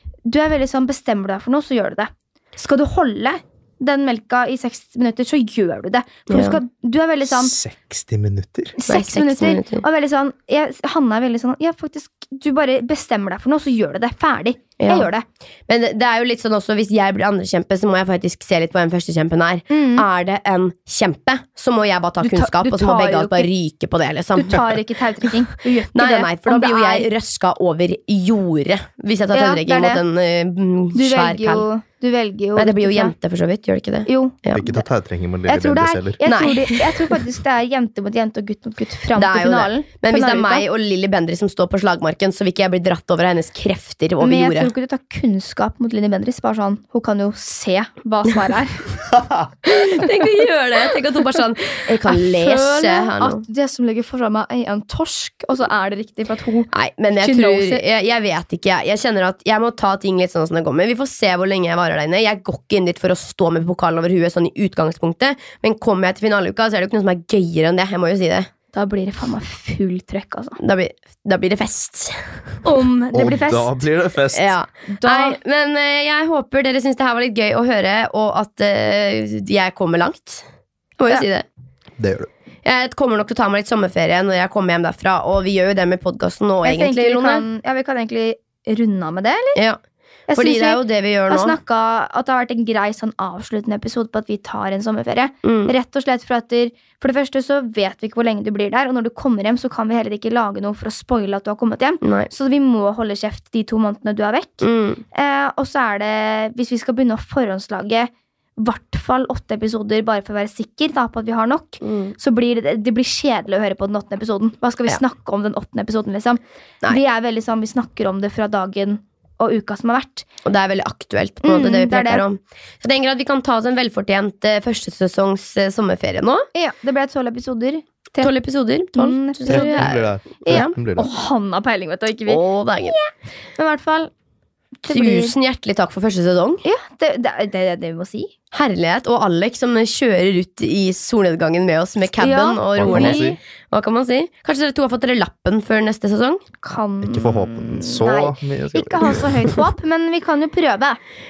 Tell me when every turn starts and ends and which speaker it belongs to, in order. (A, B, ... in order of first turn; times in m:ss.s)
0:00.3-0:07.5 A
0:06.3-0:06.6 B
0:07.2-0:08.8 C
0:08.8-0:15.2 A
0:08.9-0:09.8 B
0:14.8-0:15.1 B
0:15.7-0:24.7 B
0:19.7-0:20.0 A
0:22.2-0:23.5 A
0:24.4-0:27.1 A
0:25.9-0:31.7 B
0:29.3-0:30.0 A
0:30.9-0:33.1 A
0:32.6-0:34.8 B
0:34.1-0:34.4 A
0:34.5-0:36.2 C
0:35.5-0:40.7 A
0:36.2-0:36.8 B
0:39.2-0:44.7 B
0:44.2-0:49.0 A
0:49.1-0:49.5 C
0:49.7-0:53.4 B
0:52.0-0:57.8 A
0:56.7-1:08.5 B
1:08.7-1:10.6 A
1:10.6-1:12.4 B
1:12.6-1:13.8 A
1:13.1-1:14.5 C
1:14.3-1:20.4 B
1:14.9-1:15.4 A
1:21.0-1:21.4 B
1:22.0-1:22.3 C
1:22.6-1:27.4 B
1:26.6-1:29.6 A
1:30.3-2:00.3 A
1:30.4-1:31.6 B
1:35.4-1:35.7 B
1:42.0-1:42.3 B
1:44.6-1:45.0 B
1:51.8-1:52.2 B
2:00.4-2:06.5 B
2:01.4-2:02.2 A
2:06.6-2:08.3 A
2:08.2-2:10.7 B
2:09.0-2:09.9 A
2:09.5-2:11.1 C
2:10.4-2:14.1 A
2:12.3-2:13.0 B
2:14.8-2:15.4 A
2:14.9-2:16.6 B
2:16.6-2:18.3 A
2:18.5-2:26.4 B
2:22.2-2:23.4 A
2:22.8-2:23.4 C
2:26.6-2:31.0 A
2:27.0-2:29.6 C